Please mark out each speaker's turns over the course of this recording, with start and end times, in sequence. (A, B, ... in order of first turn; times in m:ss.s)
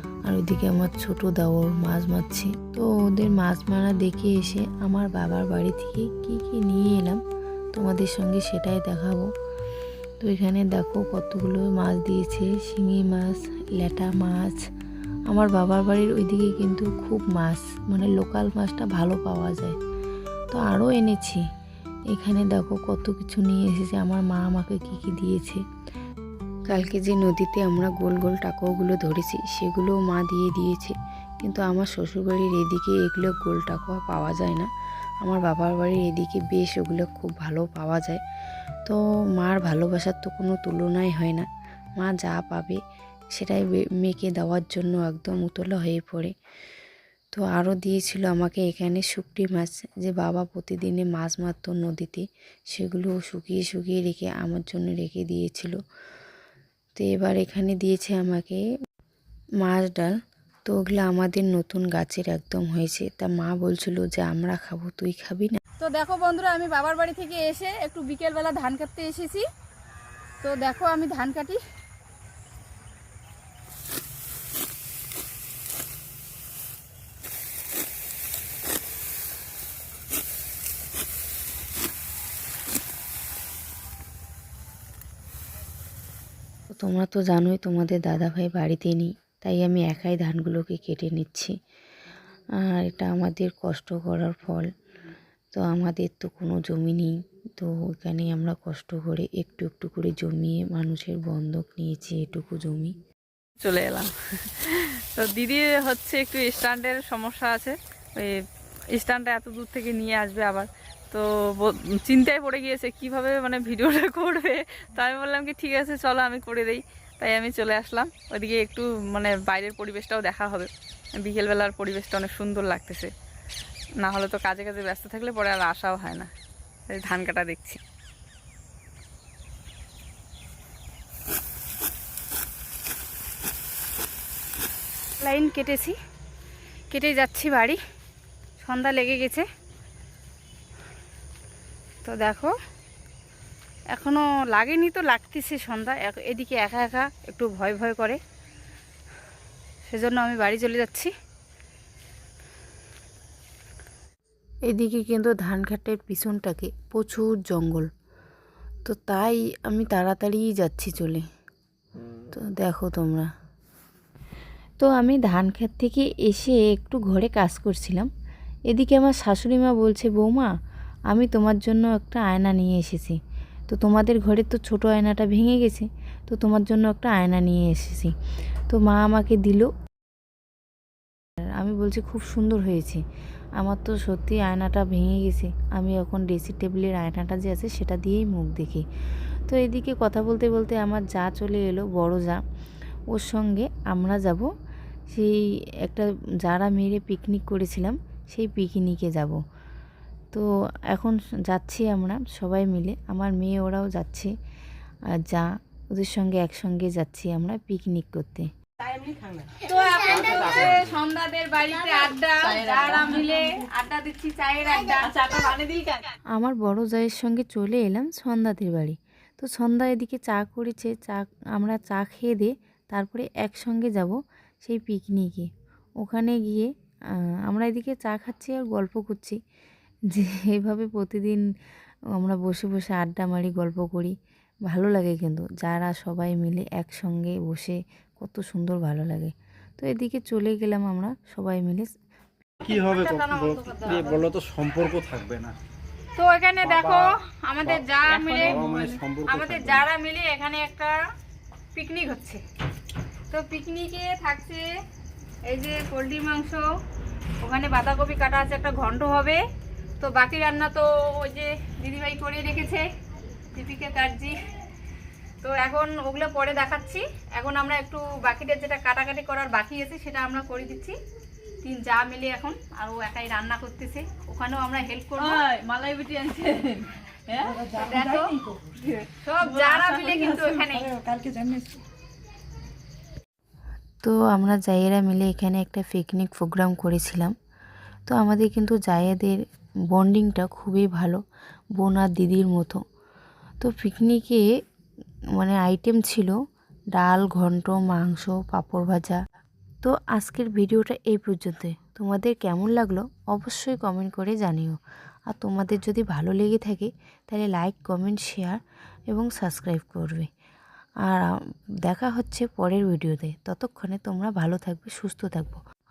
0:00.2-0:07.2 A
0:07.7-0:09.3 A
0:10.2-0:14.6 A
0:15.3-0:19.8 A
0:20.5-0:21.4 A
0:22.1-0:25.6 A
0:26.7-0:34.7 A
0:35.2-0:38.2 A
0:38.8-0:41.5 A
0:42.0-0:42.8 A
0:43.3-0:46.3 A
0:47.3-0:55.8 A
0:57.0-0:58.6 A
0:59.6-1:00.1 A
1:00.6-1:05.6 A
1:05.8-1:09.4 B
1:10.4-1:11.6 B
1:26.8-1:31.5 A
1:32.6-1:34.7 A
1:35.5-1:42.9 A
1:43.6-1:48.3 C
1:48.9-2:03.1 C
2:04.0-2:06.3 C
2:06.9-2:07.8 C
2:15.2-2:16.0 B
2:16.9-2:17.8 B
2:18.6-2:19.4 B
2:22.0-2:22.5 B
2:23.9-2:28.2 B
2:29.8-2:31.1 B
2:34.7-2:37.9 A
2:38.8-2:41.2 A
2:42.3-2:43.3 A
2:44.8-2:48.1 A
2:48.7-2:50.5 A
2:51.1-2:53.2 A
2:53.7-2:58.1 A
2:58.7-2:59.7 A
3:01.6-3:03.0 A
3:03.6-3:08.8 A
3:09.5-3:12.4 A
3:13.1-3:14.4 A
3:15.1-3:19.4 A
3:20.3-3:24.3 A
3:25.2-3:28.5 A
3:28.9-3:29.4 D
3:29.6-3:35.4 B
3:32.4-3:33.4 C
3:35.0-3:36.0 C
3:36.3-3:45.5 A
3:46.0-3:46.7 A
3:47.5-3:49.4 A
3:50.1-3:51.4 A
3:52.1-3:54.1 A
3:54.7-4:01.9 A
4:02.6-4:04.3 B
4:02.6-4:05.5 E
4:06.2-4:08.7 B
4:06.6-4:07.1 E
4:08.1-4:09.0 C
4:08.4-4:09.8 E
4:09.2-4:11.0 B
4:11.7-4:12.4 B
4:13.3-4:14.7 B
4:15.5-4:16.7 B
4:17.4-4:19.4 B
4:20.0-4:22.9 B
4:23.5-4:24.4 B
4:25.4-4:31.0 B
4:31.6-4:35.4 B
4:35.2-4:37.7 C
4:37.6-4:38.4 B
4:37.7-4:38.5 D
4:38.7-4:40.7 C
4:39.2-4:41.0 B
4:40.9-4:41.8 D
4:44.0-4:47.3 A
4:48.1-4:51.2 A
4:51.8-4:52.8 A
4:53.6-4:54.4 A
4:55.4-4:56.4 A
4:56.9-4:59.2 A
4:59.8-5:04.8 A
5:05.3-5:08.6 A
5:09.1-5:10.3 A
5:11.8-5:15.6 A